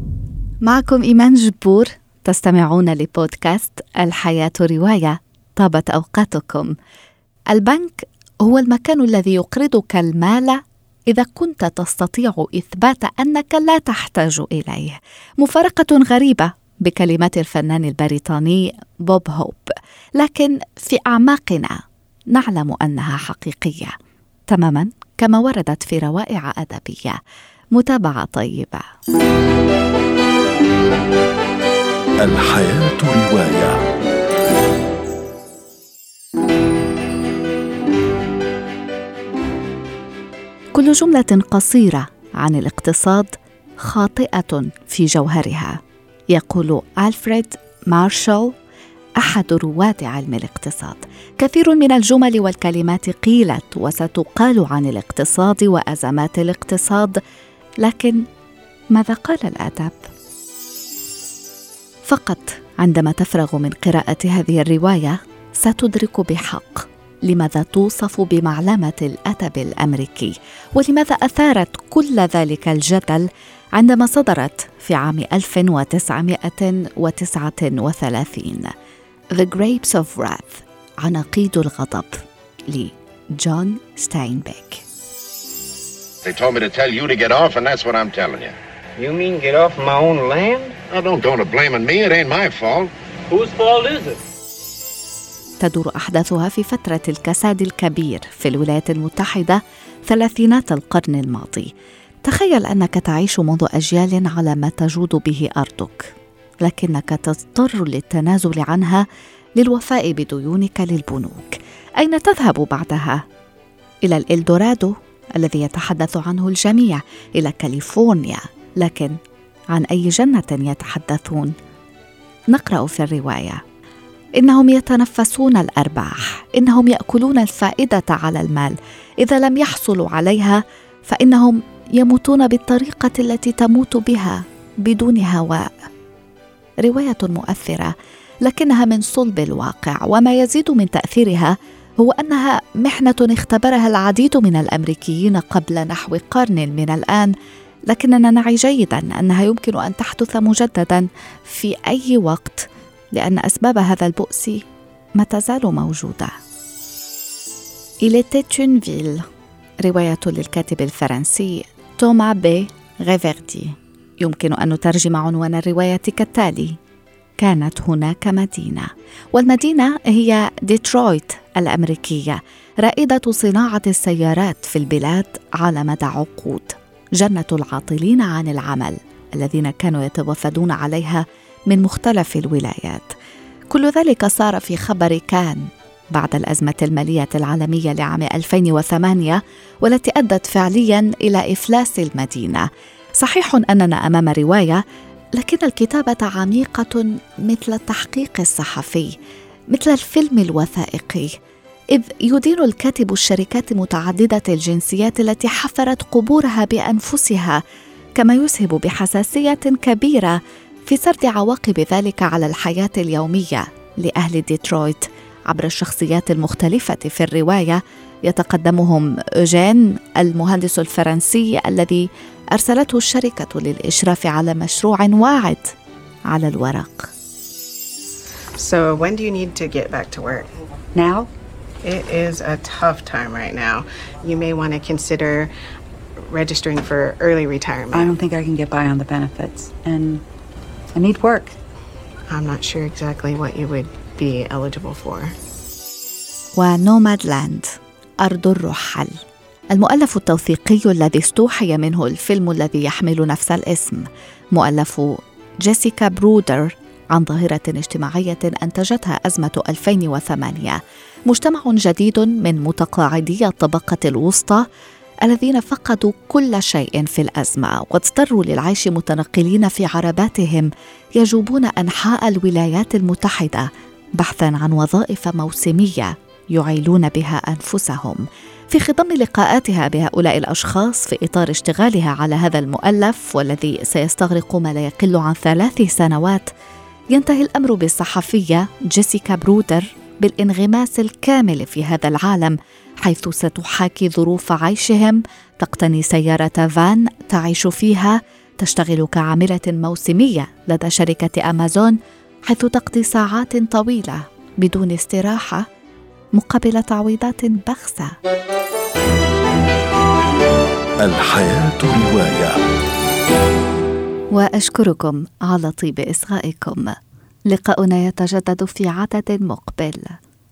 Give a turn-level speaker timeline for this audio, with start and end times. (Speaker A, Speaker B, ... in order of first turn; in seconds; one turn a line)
Speaker A: 0.6-6.7
Speaker A: 7.5-21.8
Speaker A: 22.3-23.9
Speaker A: 24.5-27.2
Speaker A: 27.8-28.8
Speaker B: 32.2-33.8
Speaker A: 40.7-45.8
Speaker A: 46.3-48.5
Speaker A: 49.2-57.2
Speaker A: 57.8-58.2
Speaker A: 58.9-60.0
Speaker A: 62.1-78.7
Speaker A: 79.3-84.8
Speaker C: 86.2-88.6
Speaker D: 89.0-90.8
Speaker C: 90.8-92.9
Speaker D: 93.3-94.2
Speaker A: 95.6-101.7
Speaker A: 102.2-106.1
Speaker A: 106.6-109.0
Speaker A: 109.6-113.2
Speaker A: 114.0-119.2
Speaker A: 119.7-121.5
Speaker A: 122.5-123.6
Speaker A: 124.4-135.7
Speaker A: 136.8-137.9
Speaker A: 138.4-147.3
Speaker A: 147.9-154.6
Speaker A: 155.2-156.3
Speaker A: 158.0-159.2
Speaker A: 159.8-166.8
Speaker A: 167.4-183.1
Speaker A: 183.7-192.7
Speaker A: 193.2-194.8
Speaker A: 195.4-199.1
Speaker A: 199.7-201.3
Speaker A: 201.9-207.6
Speaker A: 208.2-225.7
Speaker A: 226.3-227.1
Speaker E: 228.6-230.5
Speaker F: 230.9-231.3
Speaker E: 231.8-235.5
Speaker E: 236.2-238.1
Speaker F: 237.9-240.2
Speaker F: 240.9-241.6
Speaker E: 242.3-245.3
Speaker A: 246.6-247.7
Speaker A: 248.2-249.2
Speaker A: 249.7-264.6
Speaker A: 265.2-273.7
Speaker A: 274.2-286.5
Speaker A: 287.1-301.9
Speaker A: 302.5-305.6
Speaker A: 306.4-308.1
Speaker B: 311.0-312.6
Speaker A: 314.3-316.9
Speaker A: 317.5-320.2